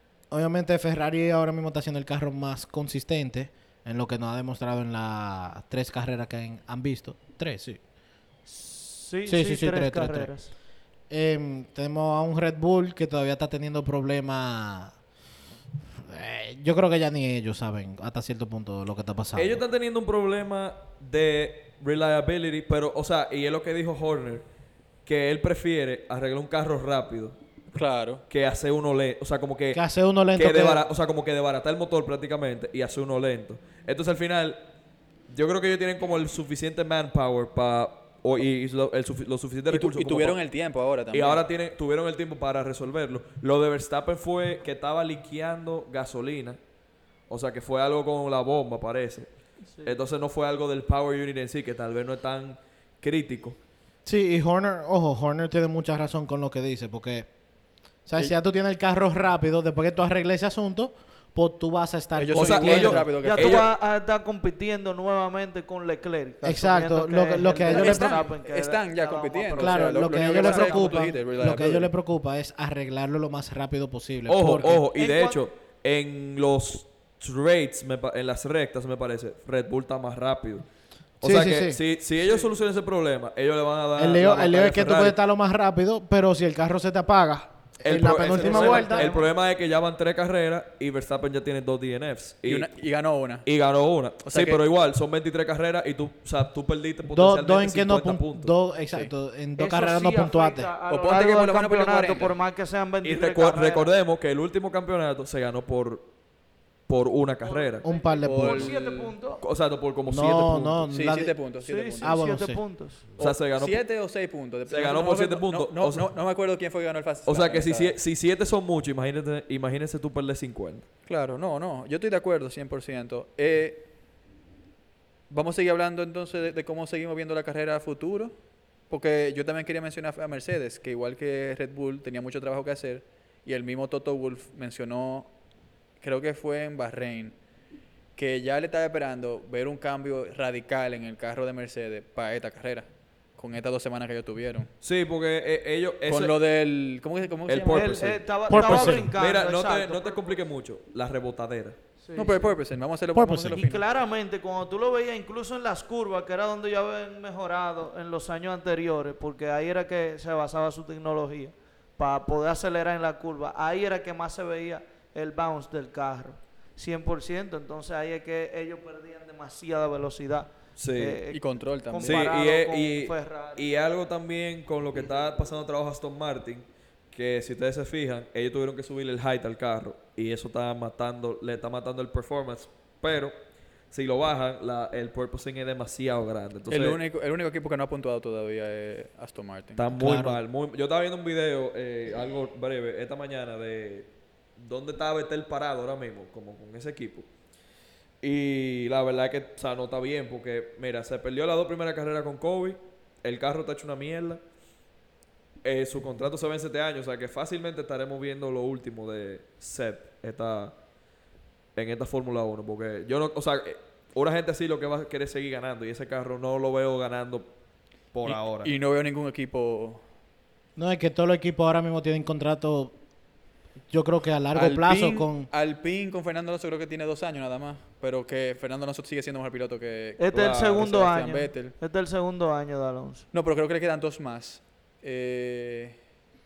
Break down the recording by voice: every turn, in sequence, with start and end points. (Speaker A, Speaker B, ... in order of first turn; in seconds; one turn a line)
Speaker A: 0.3-7.8
Speaker B: 8.5-10.5
Speaker A: 9.2-10.3
Speaker A: 11.1-14.9
Speaker A: 16.0-19.6
Speaker C: 19.4-24.4
Speaker C: 25.1-27.4
Speaker D: 27.7-28.2
Speaker C: 28.3-29.8
Speaker A: 29.7-30.8
Speaker C: 30.3-34.6
Speaker C: 35.3-40.4
Speaker D: 39.7-41.4
Speaker C: 41.1-46.6
Speaker C: 47.3-49.3
Speaker C: 49.8-53.6
Speaker A: 54.0-57.3
Speaker A: 58.0-63.1
Speaker D: 62.1-63.7
Speaker C: 62.3-63.7
Speaker B: 63.2-70.9
Speaker A: 66.4-68.3
Speaker D: 67.7-71.9
Speaker A: 69.6-74.8
Speaker C: 74.3-80.6
Speaker B: 74.9-75.4
Speaker A: 81.2-81.8
Speaker C: 81.2-85.2
Speaker A: 84.0-89.1
Speaker C: 87.8-92.7
Speaker D: 88.1-89.3
Speaker D: 92.4-93.4
Speaker C: 93.4-98.5
Speaker D: 94.2-94.6
Speaker A: 97.1-100.7
Speaker B: 99.6-103.9
Speaker D: 100.9-102.3
Speaker C: 103.0-106.1
Speaker C: 106.9-107.8
Speaker B: 107.5-109.4
Speaker A: 107.8-108.7
Speaker D: 108.2-109.1
Speaker C: 109.4-110.9
Speaker A: 110.1-111.3
Speaker D: 110.9-112.3
Speaker B: 111.6-113.0
Speaker A: 112.0-112.6
Speaker C: 113.2-113.8
Speaker D: 113.2-118.0
Speaker C: 114.7-116.0
Speaker C: 117.3-120.8
Speaker D: 121.1-123.9
Speaker D: 125.3-128.3
Speaker D: 128.9-135.3
Speaker D: 136.0-137.3
Speaker D: 138.2-144.7
Speaker C: 144.8-146.3
Speaker D: 146.1-148.2
Speaker C: 147.5-151.8
Speaker B: 147.7-150.2
Speaker A: 148.5-149.1
Speaker B: 152.0-152.4
Speaker D: 152.1-153.8
Speaker A: 153.1-153.6
Speaker B: 153.5-173.6
Speaker C: 170.8-171.2
Speaker D: 171.3-172.3
Speaker C: 172.0-183.3
Speaker C: 183.9-187.0
Speaker D: 186.7-189.8
Speaker C: 189.8-197.3
Speaker A: 189.9-190.4
Speaker C: 198.2-204.4
Speaker C: 205.6-210.7
Speaker C: 211.7-217.5
Speaker C: 218.1-218.7
Speaker D: 218.2-220.0
Speaker A: 220.8-222.9
Speaker A: 223.9-225.5
Speaker D: 224.5-231.7
Speaker B: 230.2-233.3
Speaker C: 230.3-230.9
Speaker D: 233.3-236.0